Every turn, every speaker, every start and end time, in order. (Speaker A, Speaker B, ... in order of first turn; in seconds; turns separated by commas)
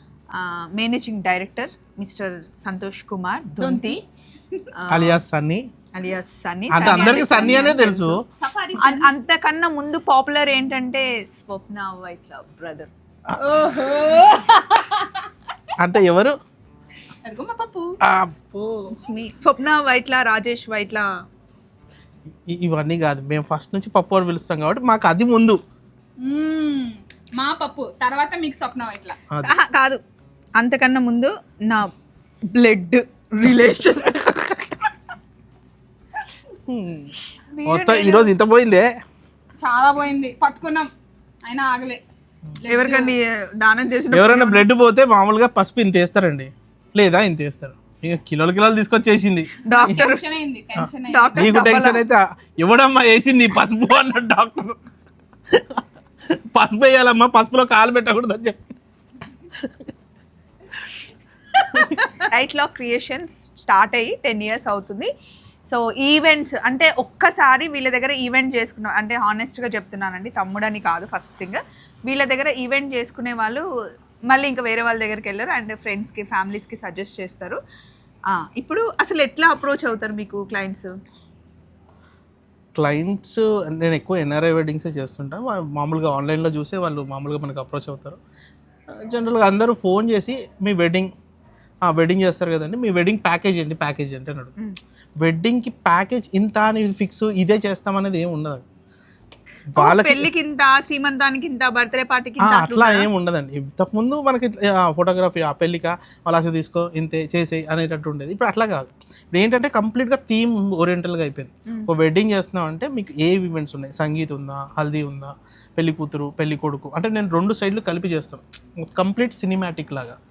Speaker A: 0.4-4.0, Speaker B: 3.6-4.6, Speaker A: 4.8-5.2, Speaker C: 4.9-5.6, Speaker A: 5.9-8.2, Speaker C: 6.7-8.2, Speaker B: 6.8-9.1, Speaker A: 8.8-12.9, Speaker B: 13.4-15.3, Speaker C: 15.8-16.3, Speaker B: 17.2-17.9, Speaker C: 18.0-18.9, Speaker A: 18.9-21.1, Speaker C: 22.5-25.6, Speaker B: 26.2-29.2, Speaker A: 29.4-30.0, Speaker A: 30.6-31.9, Speaker A: 32.5-34.8, Speaker C: 36.7-37.1, Speaker A: 37.6-38.3, Speaker C: 37.6-38.9, Speaker B: 39.6-40.9, Speaker B: 41.4-42.0, Speaker B: 42.6-43.1, Speaker A: 42.6-44.6, Speaker C: 44.1-50.1, Speaker A: 49.6-50.2, Speaker B: 49.7-51.9, Speaker A: 51.0-52.0, Speaker C: 51.4-54.8, Speaker C: 55.5-55.8, Speaker C: 56.3-58.6, Speaker A: 61.7-65.1, Speaker A: 65.7-73.6, Speaker A: 74.3-77.6, Speaker A: 78.3-80.9, Speaker C: 82.8-88.2, Speaker C: 89.0-91.1, Speaker C: 91.9-94.5, Speaker C: 95.2-98.6, Speaker C: 99.7-100.3, Speaker A: 99.8-103.1, Speaker C: 102.4-120.2